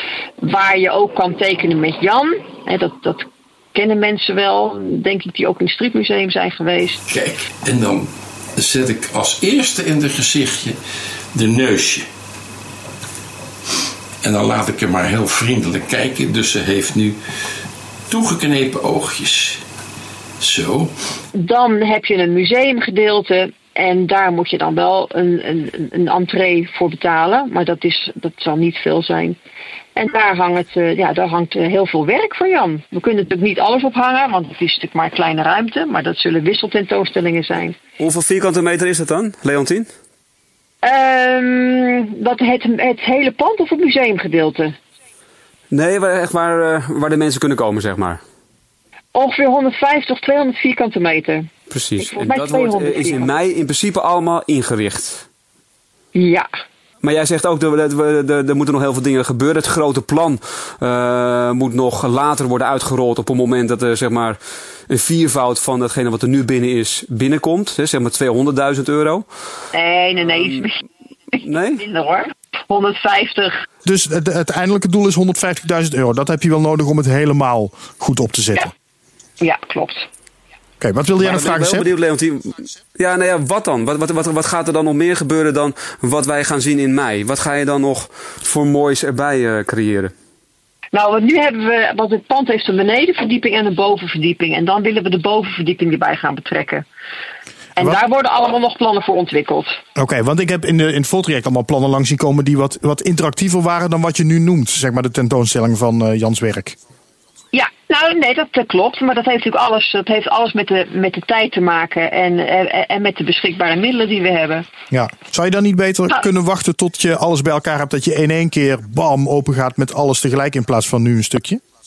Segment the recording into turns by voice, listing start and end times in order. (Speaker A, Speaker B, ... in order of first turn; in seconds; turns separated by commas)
Speaker A: 0.4-7.0, Speaker B: 7.1-10.8, Speaker B: 11.3-12.1, Speaker B: 14.2-17.2, Speaker B: 18.1-19.6, Speaker B: 20.4-20.9, Speaker A: 21.3-29.4, Speaker A: 29.9-37.8, Speaker C: 38.0-39.9, Speaker A: 40.8-44.7, Speaker C: 45.7-48.2, Speaker A: 49.1-53.3, Speaker C: 51.7-55.2, Speaker A: 56.1-56.5, Speaker C: 57.0-64.4, Speaker C: 64.9-69.2, Speaker A: 69.7-70.8, Speaker A: 71.3-73.6, Speaker C: 71.4-71.8, Speaker D: 73.8-78.7, Speaker A: 79.4-80.1, Speaker D: 80.8-81.9, Speaker C: 81.2-90.1, Speaker A: 90.9-96.8, Speaker A: 97.8-99.8, Speaker D: 100.0-106.8, Speaker A: 107.5-114.7, Speaker D: 114.9-121.6